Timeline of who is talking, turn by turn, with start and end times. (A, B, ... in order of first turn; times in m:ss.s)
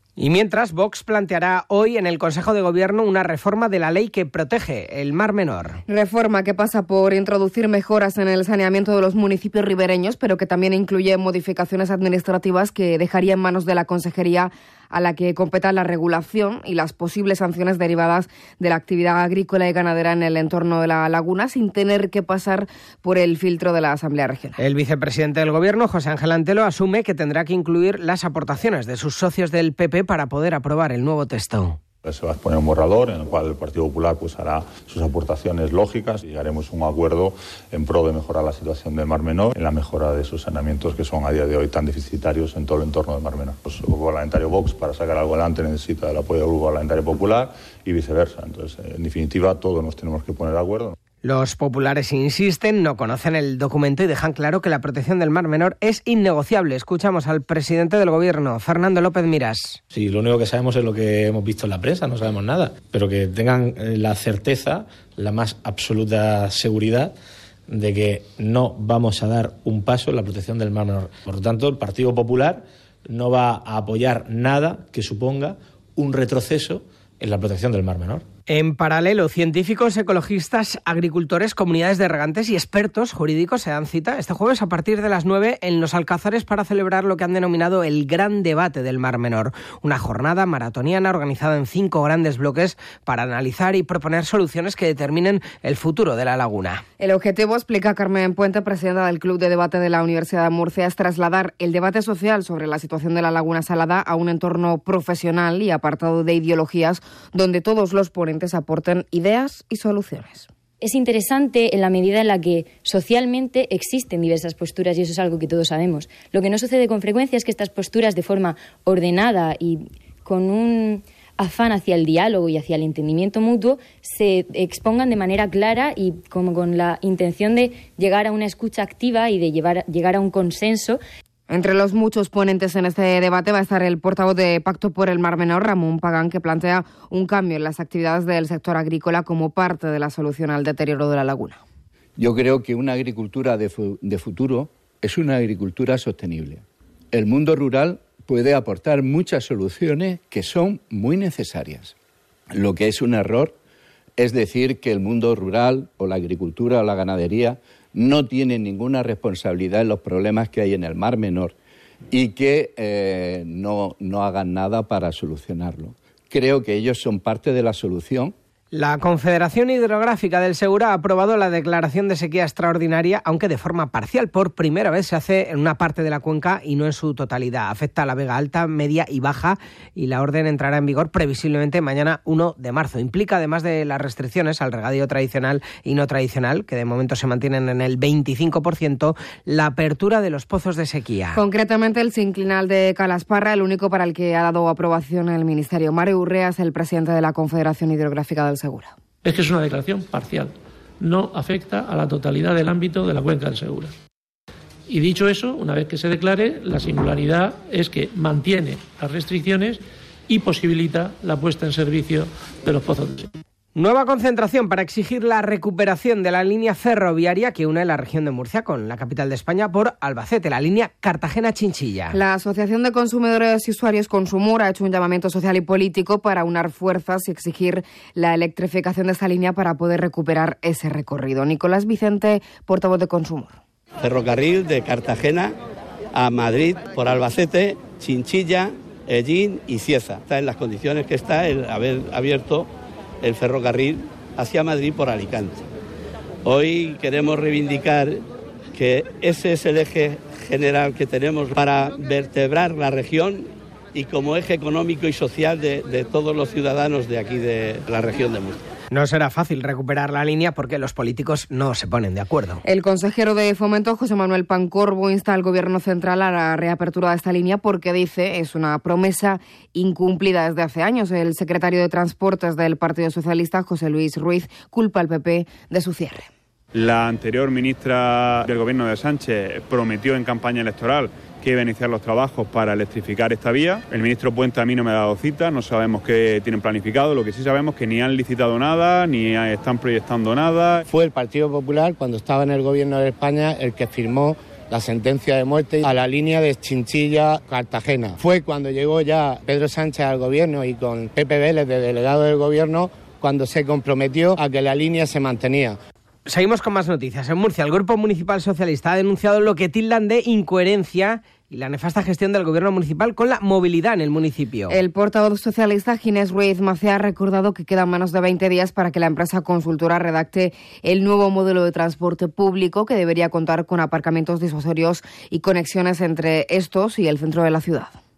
0:00.2-0:05.8 A
0:05.9-0:24.6 B
0:24.6-0:31.8 A
0:32.0-0:51.0 C
0:51.2-0:59.8 A
0:59.9-1:07.2 D
1:07.7-1:18.2 D
1:18.5-1:36.8 A
1:37.0-1:50.5 B
1:50.8-2:11.0 E
2:11.5-2:21.6 B
2:22.2-2:31.9 F
2:32.5-2:33.5 F
2:34.2-2:41.5 F
2:42.1-2:48.4 F
2:48.7-3:11.4 A
3:11.4-3:18.9 B
3:19.2-3:23.9 G
3:24.9-3:33.3 G
3:33.8-3:42.2 A
3:42.1-3:53.6 B
3:54.0-3:55.6 H
3:56.1-4:02.7 H
4:03.2-4:05.7 H
4:06.4-4:08.2 H
4:08.7-4:18.6 H
4:18.9-4:22.6 A
4:22.6-4:36.3 B
4:36.8-4:50.8 I
4:50.9-5:05.8 J
5:06.3-5:14.8 A
5:14.7-5:28.0 B